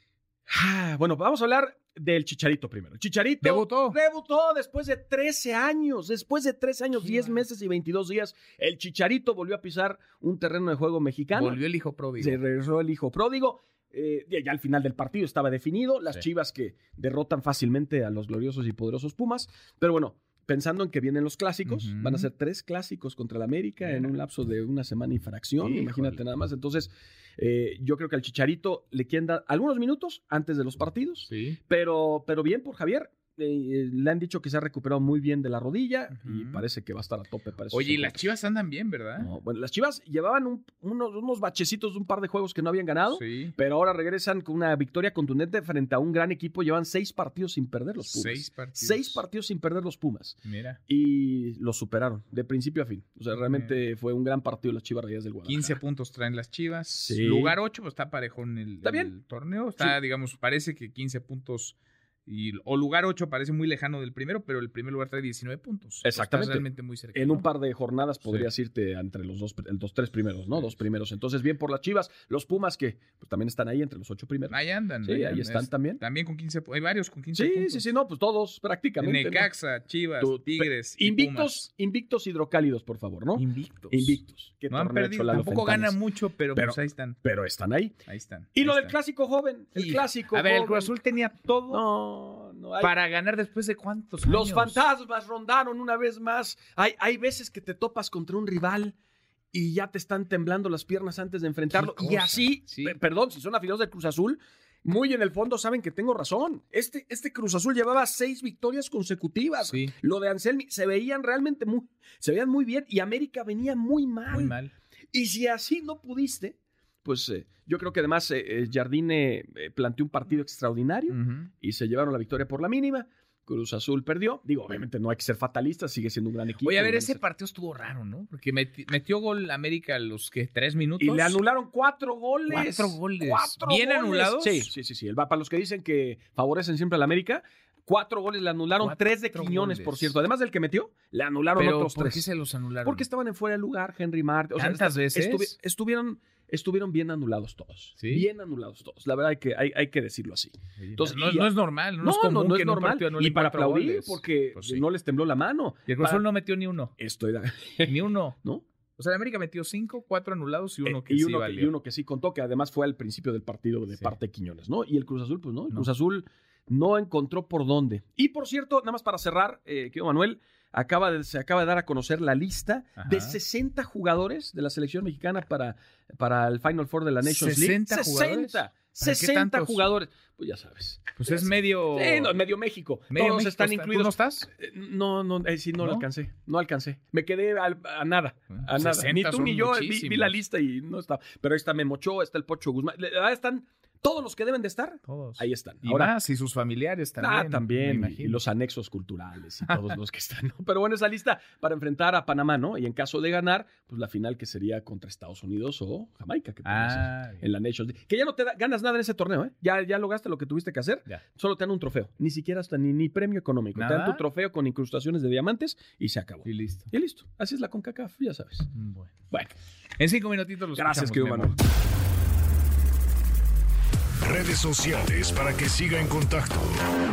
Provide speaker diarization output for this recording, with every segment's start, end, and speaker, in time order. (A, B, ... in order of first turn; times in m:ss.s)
0:00.5-0:11.6 A
0:03.4-0:04.0 B
0:07.0-0:07.4 B
0:11.3-0:12.4 B
0:12.2-0:38.3 A
0:21.6-0:22.3 B
0:23.8-0:24.1 B
0:25.6-0:26.2 B
0:31.3-0:31.6 B
0:36.1-0:36.6 B
0:37.7-0:39.3 B
0:39.2-0:55.8 A
0:43.1-0:43.5 B
0:48.0-0:49.2 B
0:50.4-0:50.8 B
0:53.3-0:53.8 B
0:55.4-1:07.5 B
0:57.0-0:57.5 A
0:58.8-0:59.1 A
1:06.0-1:16.0 A
1:14.5-1:17.8 B
1:17.3-1:19.5 A
1:19.0-1:21.6 B
1:20.2-1:26.0 A
1:23.4-1:27.2 B
1:26.5-1:28.0 A
1:28.0-1:28.9 B
1:28.5-1:30.9 A
1:29.7-1:31.8 B
1:31.7-1:32.9 A
1:32.8-1:34.8 B
1:34.2-1:39.0 A
1:39.5-1:54.6 A
1:41.7-1:42.9 B
1:49.6-1:49.9 B
1:54.3-1:54.7 B
1:55.1-2:07.2 A
2:01.1-2:01.5 B
2:06.6-2:11.4 B
2:11.0-2:22.2 A
2:12.5-2:14.7 B
2:18.8-2:20.1 B
2:21.6-2:23.0 B
2:22.8-2:36.2 A
2:24.6-2:25.5 B
2:28.0-2:28.3 B
2:30.8-2:34.8 B
2:35.8-2:36.9 B
2:37.0-2:38.6 A
2:37.8-2:38.4 B
2:39.0-2:41.7 B
2:40.8-3:16.1 A
2:53.0-2:53.4 B
2:57.2-2:59.9 B
3:01.2-3:02.4 B
3:03.1-3:04.5 B
3:05.8-3:06.0 B
3:08.5-3:10.4 B
3:15.0-3:18.4 B
3:17.2-3:38.7 A
3:19.7-3:19.9 B
3:26.6-3:27.4 B
3:33.8-3:34.2 B
3:36.4-3:36.9 B
3:38.7-3:39.1 B
3:40.0-3:41.5 B
3:40.7-3:41.5 A
3:44.2-3:46.9 C